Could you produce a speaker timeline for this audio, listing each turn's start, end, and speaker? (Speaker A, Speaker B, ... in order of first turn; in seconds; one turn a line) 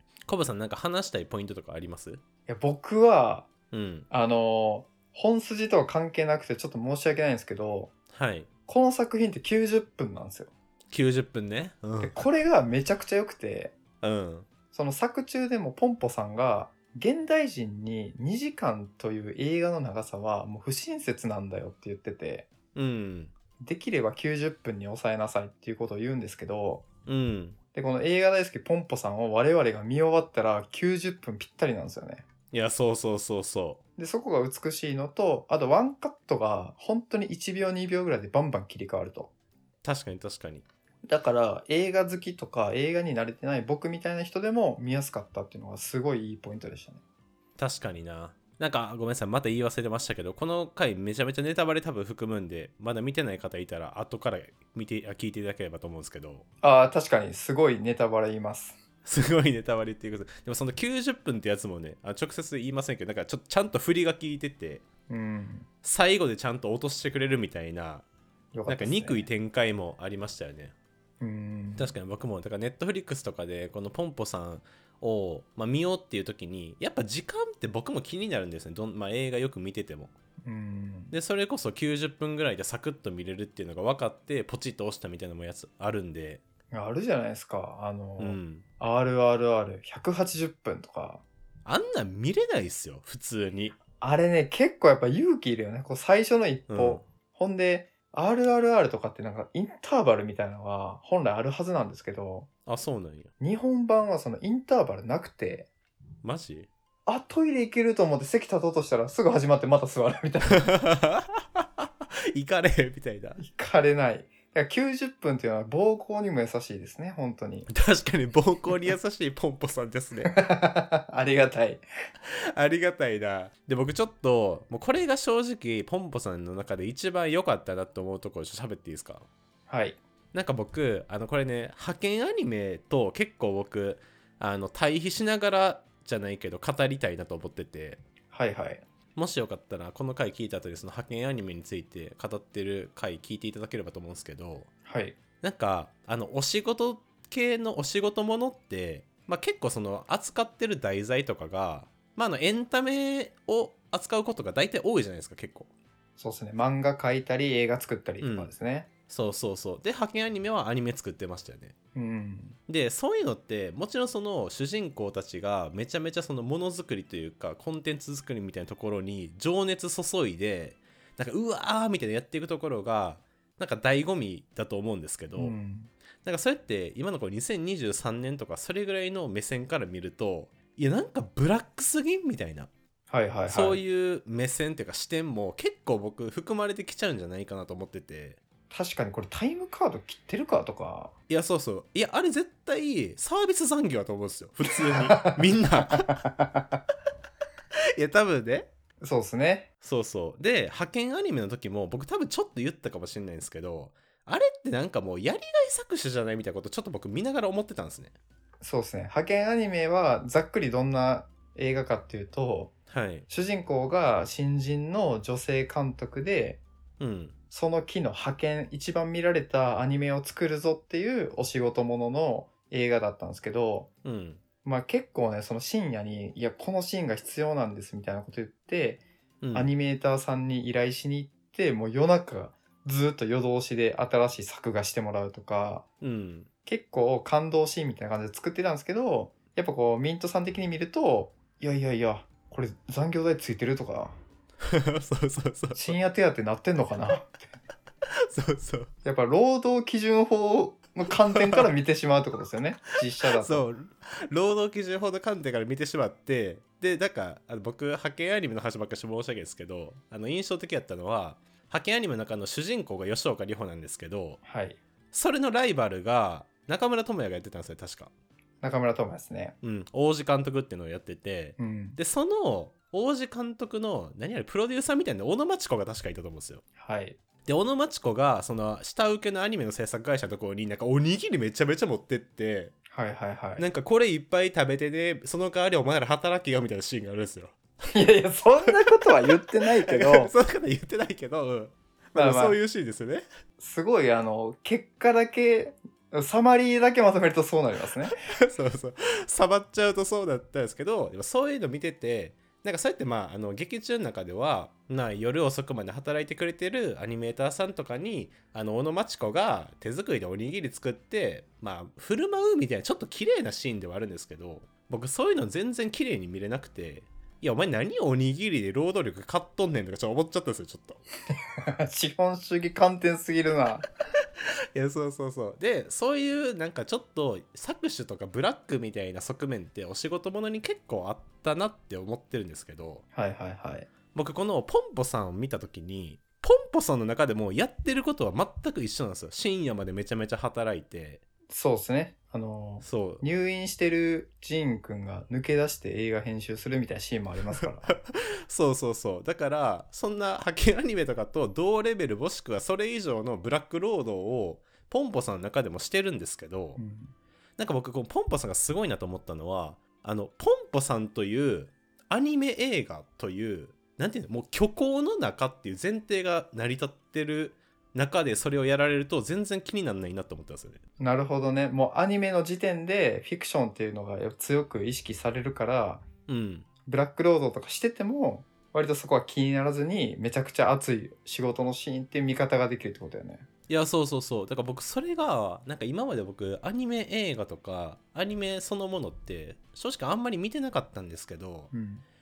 Speaker A: 0.3-2.2
Speaker B: 2.5-3.5
Speaker A: 3.7-4.1
Speaker B: 4.1-7.9
Speaker A: 8.1-8.5
Speaker B: 8.7-10.5
Speaker A: 10.9-12.2
Speaker B: 12.0-13.8
Speaker A: 14.0-14.5
Speaker B: 14.7-22.5
Speaker A: 22.8-23.3
Speaker B: 23.6-26.9
Speaker A: 27.1-27.6
Speaker B: 27.7-32.2
Speaker A: 32.5-33.8
Speaker B: 34.0-39.3
Speaker A: 39.8-40.6
Speaker B: 41.1-47.0
Speaker A: 47.6-56.5
Speaker B: 56.6-58.8
Speaker A: 59.0-64.8
Speaker B: 65.1-65.7
Speaker A: 65.8-68.0
Speaker B: 68.5-69.3
Speaker A: 68.7-70.7
Speaker B: 71.2-72.0
Speaker A: 71.8-80.1
Speaker B: 80.5-81.1
Speaker A: 81.1-86.4
Speaker B: 86.7-91.2
Speaker A: 88.2-88.7
Speaker A: 91.7-93.8
Speaker B: 94.0-102.5
Speaker A: 96.7-97.0
Speaker A: 102.7-103.3
Speaker B: 103.4-105.7
Speaker A: 106.2-106.7
Speaker B: 107.1-110.7
Speaker A: 110.6-113.4
Speaker B: 113.4-117.7
Speaker A: 117.7-120.3
Speaker B: 120.2-121.8
Speaker A: 122.3-129.3
Speaker B: 129.7-130.0
Speaker A: 130.3-138.0
Speaker B: 138.3-138.8
Speaker A: 139.2-144.7
Speaker B: 144.9-145.2
Speaker A: 145.4-155.7
Speaker B: 156.2-158.9
Speaker A: 158.2-158.5
Speaker A: 159.1-161.7
Speaker B: 161.9-162.6
Speaker A: 162.7-175.6
Speaker B: 175.4-175.9
Speaker A: 176.2-182.7
Speaker B: 183.1-183.8
Speaker A: 183.5-188.4
Speaker B: 188.7-191.1
Speaker A: 191.3-196.2
Speaker B: 194.9-196.8
Speaker A: 198.0-198.7
Speaker B: 199.0-199.7
Speaker A: 199.8-208.2
Speaker B: 208.6-212.7
Speaker A: 212.9-213.3
Speaker B: 213.3-216.6
Speaker A: 217.0-217.4
Speaker B: 217.5-223.9
Speaker A: 224.0-224.4
Speaker B: 224.6-235.9
Speaker A: 229.4-229.7
Speaker A: 236.0-236.5
Speaker B: 236.7-244.2
Speaker A: 244.7-246.0
Speaker B: 245.7-247.4
Speaker A: 248.2-248.9
Speaker B: 249.0-253.7
Speaker A: 251.3-251.7
Speaker A: 253.3-264.4
Speaker B: 264.4-264.8
Speaker A: 265.1-268.1
Speaker B: 268.6-269.6
Speaker A: 269.6-276.6
Speaker B: 271.6-272.0
Speaker B: 276.8-277.2
Speaker A: 277.4-282.8
Speaker B: 282.9-283.6
Speaker A: 283.6-287.6
Speaker B: 287.9-290.3
Speaker A: 288.9-289.2
Speaker A: 289.9-293.2
Speaker B: 292.1-292.6
Speaker B: 293.6-298.2
Speaker A: 298.4-321.0
Speaker B: 321.6-323.9
Speaker A: 324.7-333.0
Speaker B: 333.1-333.9
Speaker A: 334.1-341.2
Speaker B: 341.5-347.9
Speaker A: 342.8-343.2
Speaker A: 347.9-356.8
Speaker B: 356.8-357.1
Speaker A: 357.6-370.8
Speaker B: 371.0-376.1
Speaker A: 376.3-376.7
Speaker B: 376.9-383.5
Speaker A: 383.7-391.7
Speaker B: 391.7-392.0